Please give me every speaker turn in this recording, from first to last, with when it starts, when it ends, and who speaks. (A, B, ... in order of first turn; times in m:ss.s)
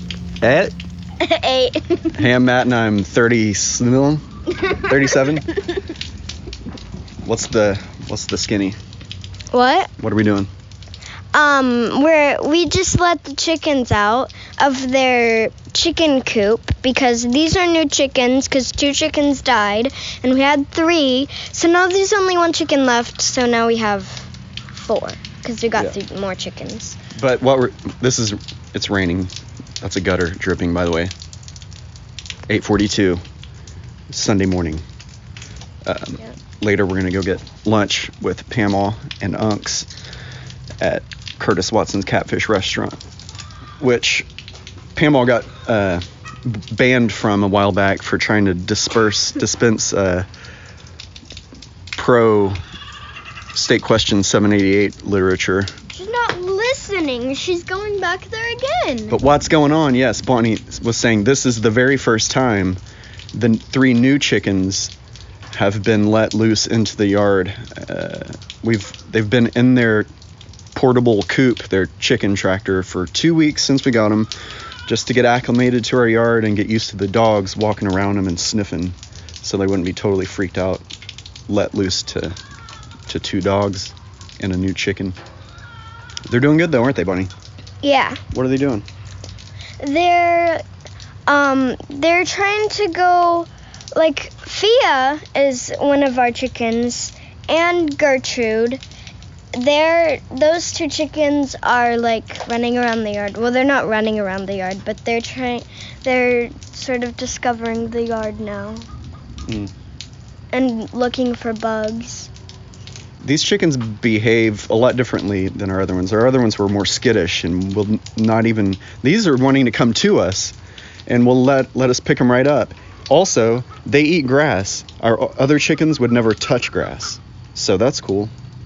0:00.4-0:00.7 A
0:01.2-0:02.2 B
0:02.2-0:04.2 A
0:04.6-0:05.8 B
0:04.8-0:05.4 A
0:07.2-0:08.8 A
0:09.5-0:09.9 B
0:10.0-0:10.5 A
0:11.3-0:27.0 B
0:27.2-0:31.1 A
0:32.5-0:33.2 A
0:34.1-0:34.8 A
0:35.8-0:39.9 A
0:40.8-0:43.0 A
0:43.8-0:44.3 A
0:45.0-0:50.3 A
0:52.0-0:52.6 A
0:53.5-0:55.7 A
0:55.9-0:59.2 B
0:59.1-1:02.8 A
1:03.3-1:04.9 A
1:05.5-1:10.1 A
1:10.7-1:14.3 A
1:14.9-1:20.8 A
1:21.5-1:22.4 A
1:23.1-1:25.2 A
1:26.3-1:27.3 A
1:27.8-1:28.2 B
1:28.3-1:28.8 A
1:29.8-1:30.6 B
1:31.3-1:38.8 B
1:39.5-1:48.9 B
1:49.5-1:49.7 A
1:50.5-1:52.3 B
1:53.2-2:00.6 A
2:01.1-2:08.3 A